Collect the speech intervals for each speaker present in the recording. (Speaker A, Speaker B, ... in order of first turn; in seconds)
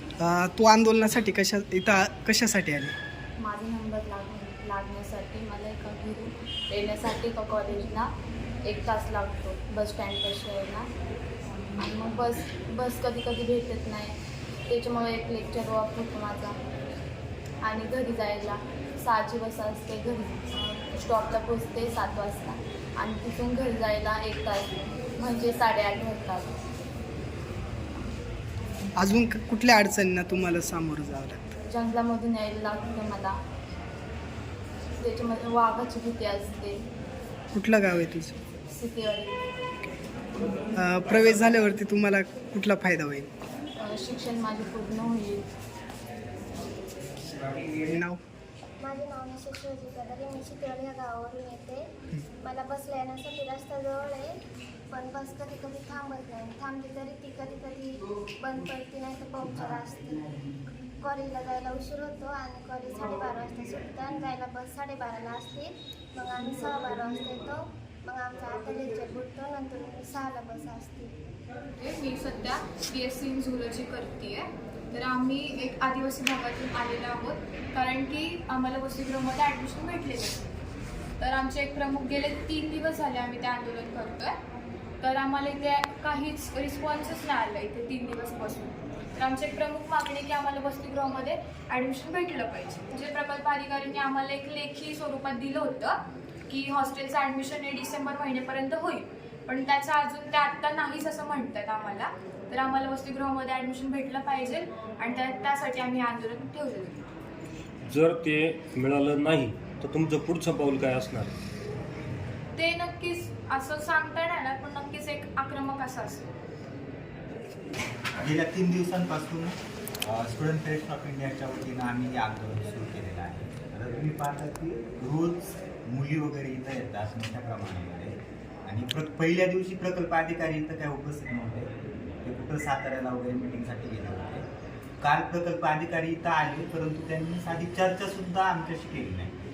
Speaker A: 0.2-2.9, 29.0-31.4, 37.5-38.4, 40.8-43.3, 47.6-48.2
Speaker B: 3.4-8.1, 8.6-10.9, 11.8-14.1, 14.7-16.6, 17.6-26.5, 31.7-33.4, 34.9-36.8, 38.7-39.4, 43.8-45.4
Speaker C: 48.8-51.9, 52.4-54.3, 54.9-60.2, 61.0-71.1
Speaker D: 71.8-80.5, 81.2-84.4, 85.0-107.0, 112.6-116.2
Speaker E: 107.9-111.3
Speaker F: 118.2-131.7, 132.2-134.5, 135.0-139.3